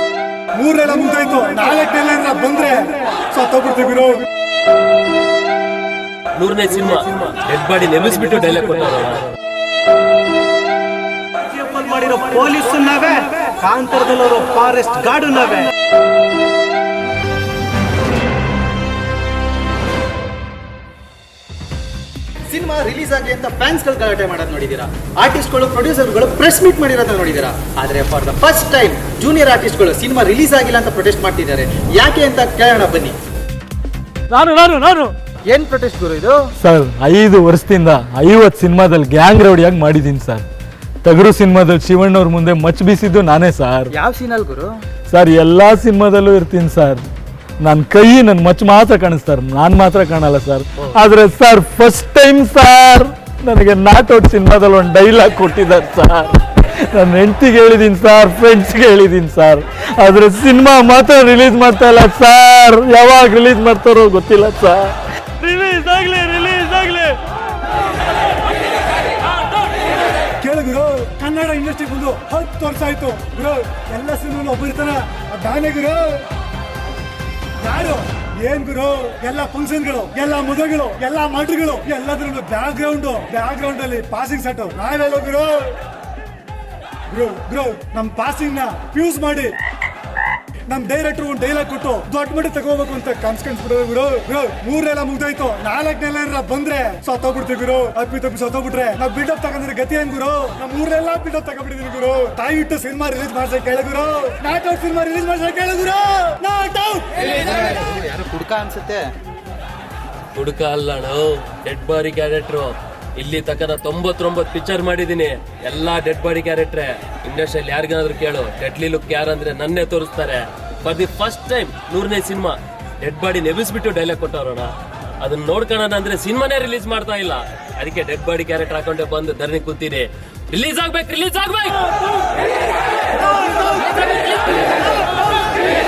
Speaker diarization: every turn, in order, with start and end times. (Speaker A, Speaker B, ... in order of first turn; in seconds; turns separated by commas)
Speaker A: 0.5-4.3, Speaker B: 6.4-9.3, Speaker C: 11.4-15.7, Speaker D: 22.5-33.2, Speaker E: 34.3-35.1, Speaker D: 35.5-36.5, Speaker E: 36.6-40.5, Speaker E: 41.0-43.9, Speaker D: 44.0-44.8, Speaker E: 45.1-47.0, Speaker E: 47.6-67.1, Speaker A: 70.4-76.2, Speaker A: 77.6-85.8, Speaker A: 87.1-89.5, Speaker A: 90.7-107.4, Speaker D: 107.4-109.1, Speaker B: 110.3-131.9